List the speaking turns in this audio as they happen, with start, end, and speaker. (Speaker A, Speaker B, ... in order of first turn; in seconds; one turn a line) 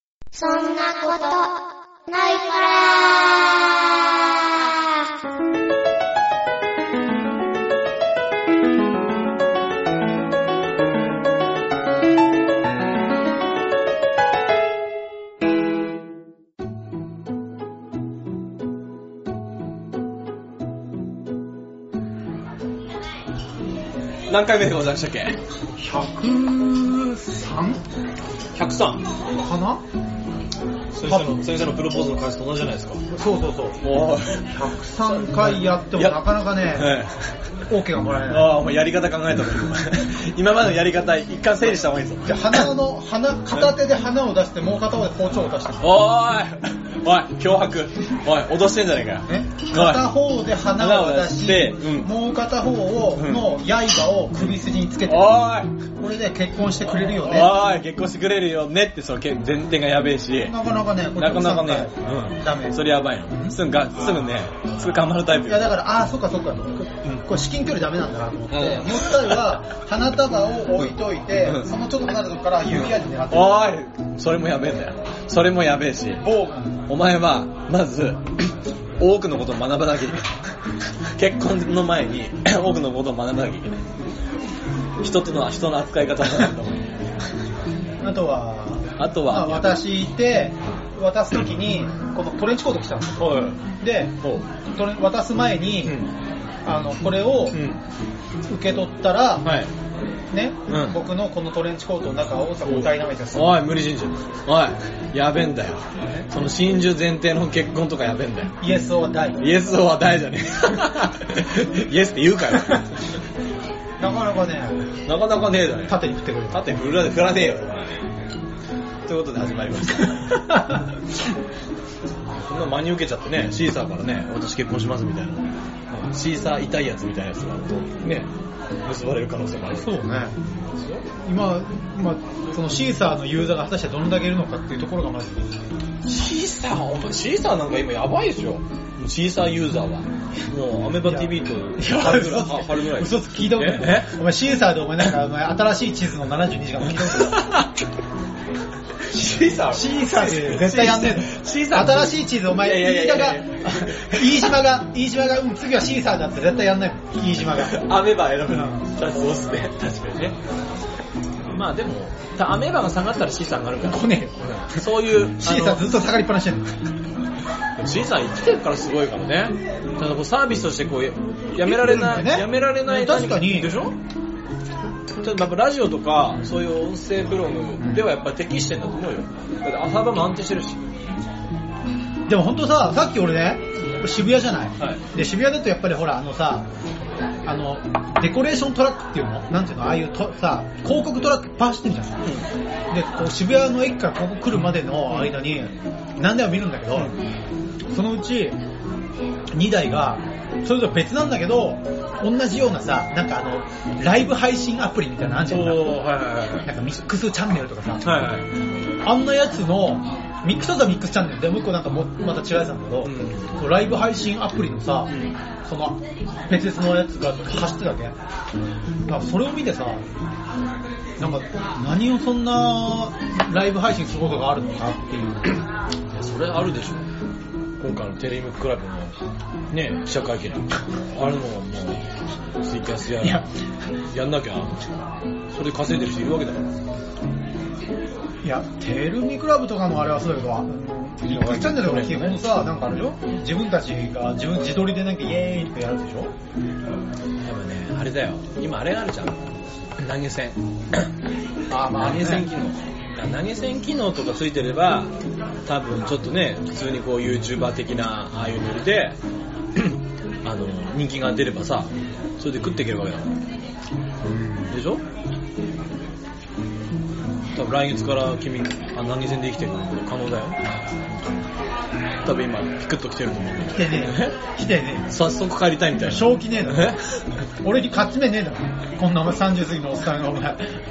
Speaker A: 0.3-5.2
Speaker B: 24.3-25.4
Speaker C: 25.8-27.8
Speaker B: 28.6-29.1
Speaker C: 29.3-29.8
Speaker B: 30.9-33.0
Speaker C: 31.0-31.4
Speaker C: 33.1-33.8
Speaker B: 33.8-37.2
Speaker C: 34.5-37.0
Speaker C: 37.7-38.6
Speaker B: 38.3-42.6
Speaker C: 42.2-46.0
Speaker B: 45.8-50.1
Speaker C: 49.3-57.6
Speaker B: 50.8-52.1
Speaker B: 53.1-53.5
Speaker B: 55.1-55.7
Speaker B: 56.9-60.5
Speaker C: 60.4-62.8
Speaker B: 61.2-65.7
Speaker C: 65.4-73.7
Speaker B: 68.5-69.4
Speaker B: 72.8-76.2
Speaker C: 76.2-76.8
Speaker B: 76.9-80.3
Speaker B: 81.2-83.8
Speaker B: 85.0-86.9
Speaker C: 88.0-94.2
Speaker B: 89.0-89.8
Speaker B: 93.2-93.6
Speaker C: 94.7-96.0
Speaker B: 95.8-96.1
Speaker C: 96.7-97.6
Speaker B: 97.5-97.8
Speaker C: 98.4-99.5
Speaker B: 99.4-99.7
Speaker C: 100.3-103.5
Speaker B: 100.7-101.0
Speaker B: 102.6-108.5
Speaker C: 108.6-109.4
Speaker B: 109.4-112.9
Speaker C: 114.0-114.8
Speaker B: 115.1-116.0
Speaker C: 115.9-116.7
Speaker B: 116.5-118.0
Speaker B: 119.1-120.4
Speaker C: 120.3-121.0
Speaker B: 122.3-128.3
Speaker B: 128.8-130.0
Speaker C: 129.8-130.4
Speaker B: 130.5-131.0
Speaker C: 131.2-135.5
Speaker B: 136.0-144.1
Speaker C: 141.0-147.5
Speaker B: 147.3-147.7
Speaker B: 149.1-154.5
Speaker C: 149.7-157.9
Speaker B: 157.6-160.3
Speaker C: 158.5-159.0
Speaker B: 161.5-165.9
Speaker C: 163.8-166.9
Speaker B: 167.8-173.9
Speaker C: 171.6-173.8
Speaker B: 175.2-180.8
Speaker C: 182.3-186.7
Speaker C: 187.4-192.2
Speaker C: 192.9-197.1
Speaker C: 197.9-198.6
Speaker C: 199.5-206.0
Speaker B: 205.5-206.7
Speaker C: 206.6-208.0
Speaker B: 208.0-208.5
Speaker C: 209.0-215.1
Speaker B: 213.0-213.5
Speaker C: 215.6-218.2
Speaker C: 219.1-220.0
Speaker C: 221.2-225.6
Speaker B: 226.1-227.0
Speaker B: 227.8-229.2
Speaker B: 229.7-232.1
Speaker B: 232.6-233.4
Speaker B: 234.1-234.9
Speaker B: 235.5-236.7
Speaker C: 238.4-246.3
Speaker B: 241.2-242.4
Speaker B: 247.4-249.4
Speaker B: 250.0-251.1
Speaker C: 251.7-252.5
Speaker B: 251.9-255.1
Speaker B: 255.7-259.2
Speaker B: 259.8-263.3
Speaker C: 264.2-264.7
Speaker B: 264.7-265.0
Speaker B: 267.6-271.3
Speaker B: 272.2-274.4
Speaker C: 273.7-275.1
Speaker B: 275.1-277.2
Speaker C: 276.0-277.0
Speaker C: 277.6-280.7